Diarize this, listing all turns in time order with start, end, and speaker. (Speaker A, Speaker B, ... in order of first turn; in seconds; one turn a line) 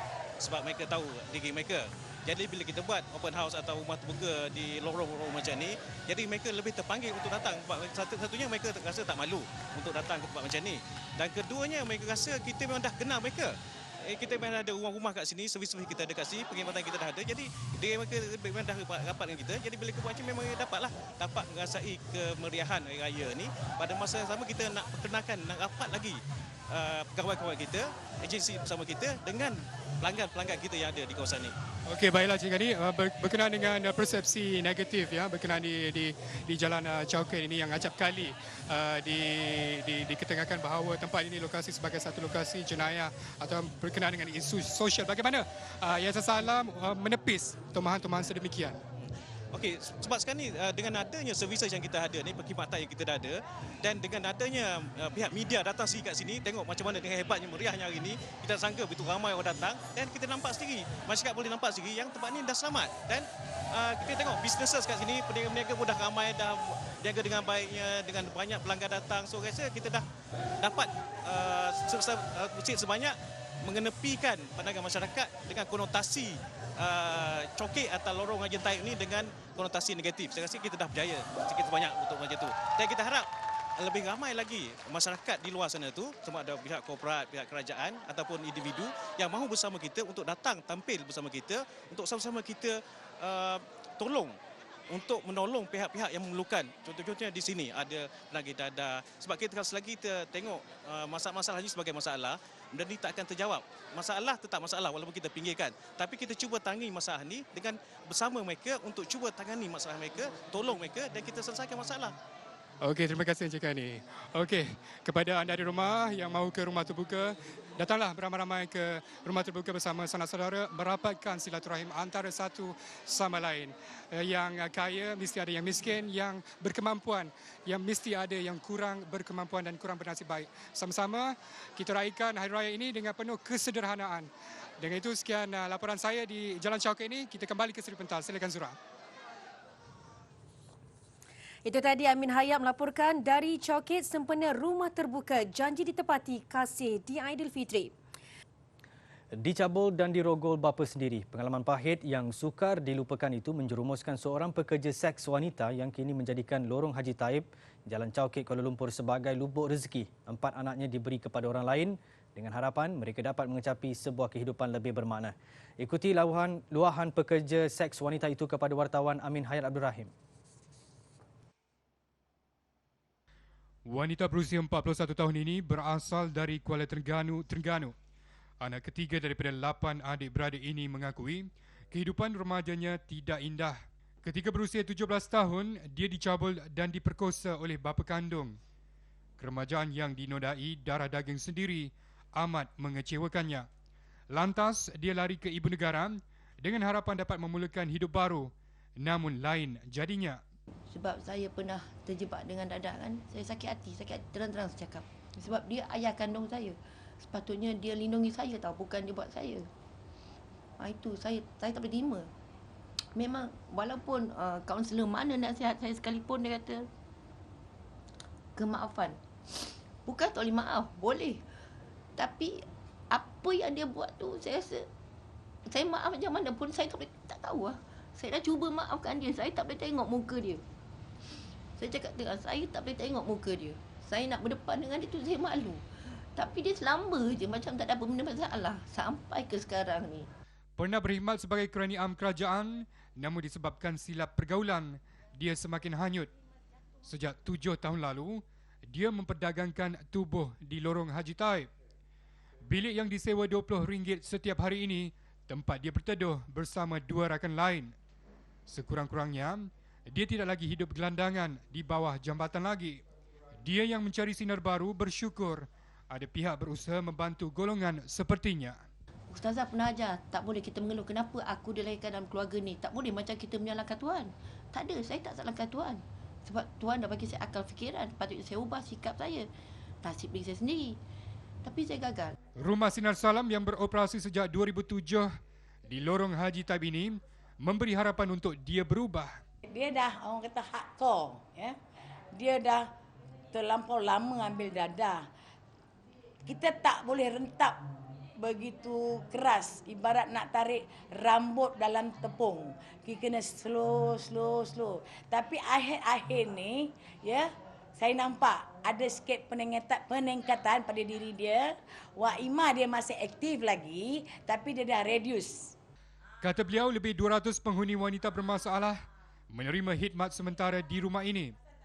Speaker A: 0.4-31.5
Speaker B: 31.9-48.8
Speaker A: 49.5-70.0
Speaker A: 70.6-94.4
Speaker A: 94.9-112.1
Speaker B: 112.8-138.8
Speaker C: 141.6-147.9
Speaker D: 149.3-170.1
Speaker E: 173.9-177.9
Speaker E: 178.6-188.6
Speaker E: 189.4-193.7
Speaker E: 194.3-200.4
Speaker F: 200.9-209.7
Speaker F: 210.8-212.3
Speaker F: 213.2-216.9
Speaker F: 218.6-219.2
Speaker F: 220.1-221.4
Speaker F: 222.2-224.9
Speaker F: 225.7-230.6
Speaker F: 231.8-240.3
Speaker E: 240.8-246.3
Speaker E: 247.0-251.7
Speaker E: 252.7-257.9
Speaker E: 258.7-263.0
Speaker E: 263.6-268.8
Speaker F: 269.3-279.5
Speaker F: 280.0-281.0
Speaker F: 281.6-282.4
Speaker E: 282.6-285.3
Speaker E: 285.9-289.4
Speaker G: 289.7-291.8
Speaker G: 292.3-292.9
Speaker G: 293.5-295.2
Speaker G: 296.4-297.8
Speaker G: 298.4-315.7
Speaker E: 316.4-321.5